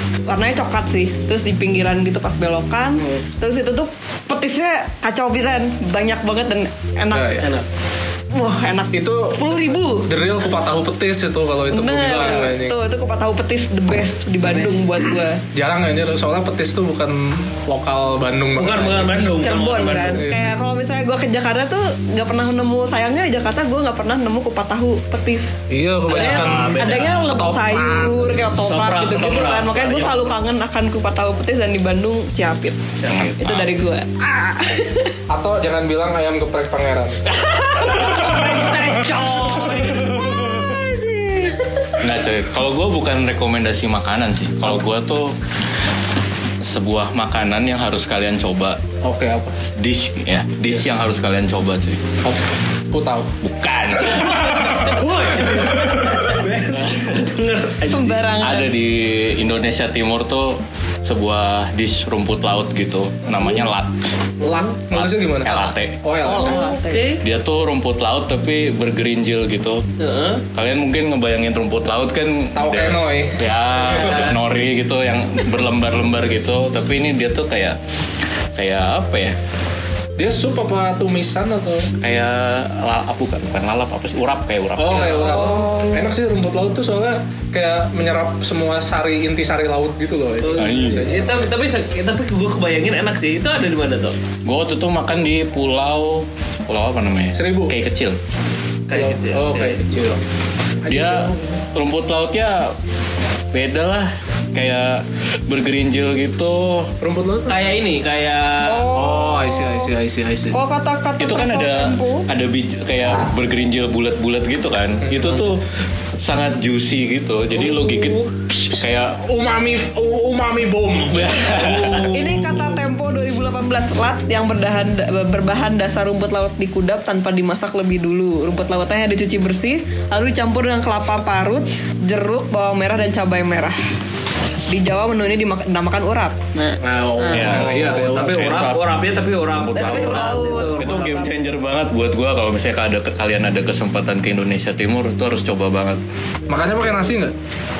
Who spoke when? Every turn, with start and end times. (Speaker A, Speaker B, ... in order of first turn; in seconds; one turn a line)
Speaker A: 0.3-7.4
Speaker B: 3.0-3.2
Speaker C: 7.1-7.5
Speaker A: 8.3-10.1
Speaker C: 8.9-9.4
Speaker C: 10.0-12.8
Speaker A: 11.7-15.4
Speaker B: 12.1-12.4
Speaker B: 14.4-15.1
Speaker C: 15.5-19.4
Speaker B: 18.5-20.2
Speaker A: 19.4-32.8
Speaker C: 20.1-20.5
Speaker C: 25.7-28.5
Speaker B: 26.1-27.3
Speaker B: 28.7-30.2
Speaker B: 33.0-33.4
Speaker D: 33.1-33.7
Speaker A: 33.4-35.2
Speaker C: 35.3-37.2
Speaker A: 37.5-38.3
Speaker B: 37.6-40.2
Speaker C: 38.0-40.8
Speaker A: 39.9-41.9
Speaker D: 42.0-45.3
Speaker D: 46.6-48.8
Speaker C: 49.0-49.5
Speaker D: 49.8-52.0
Speaker C: 52.2-53.3
Speaker D: 53.4-54.4
Speaker B: 54.0-58.3
Speaker C: 54.2-56.3
Speaker D: 56.8-57.2
Speaker A: 57.9-58.7
Speaker D: 58.4-63.9
Speaker B: 64.4-64.7
Speaker C: 64.4-66.6
Speaker D: 64.9-66.0
Speaker B: 66.2-67.2
Speaker A: 66.2-67.0
Speaker D: 67.2-69.8
Speaker B: 70.0-70.4
Speaker D: 70.5-77.8
Speaker C: 72.5-74.3
Speaker B: 73.8-74.3
Speaker D: 78.5-79.3
Speaker C: 80.2-81.9
Speaker D: 82.0-85.3
Speaker C: 84.8-91.5
Speaker B: 84.9-85.4
Speaker A: 85.1-86.1
Speaker B: 90.4-94.1
Speaker D: 90.5-91.1
Speaker D: 94.5-98.2
Speaker C: 97.3-97.7
Speaker B: 98.9-99.8
Speaker C: 98.9-100.2
Speaker C: 100.8-101.6
Speaker D: 100.9-102.8
Speaker D: 103.5-106.9
Speaker C: 107.0-107.8
Speaker B: 107.5-108.9
Speaker A: 108.7-109.9
Speaker C: 108.9-110.6
Speaker A: 110.5-112.3
Speaker D: 111.2-115.6
Speaker C: 115.1-115.3
Speaker D: 116.2-119.2
Speaker C: 118.7-121.8
Speaker D: 121.1-122.1
Speaker B: 121.6-122.7
Speaker A: 122.1-133.8
Speaker A: 134.7-137.5
Speaker C: 136.8-138.8
Speaker D: 137.3-138.8
Speaker B: 137.5-141.3
Speaker A: 139.7-141.4
Speaker D: 139.8-140.1
Speaker D: 140.7-146.0
Speaker C: 146.5-147.3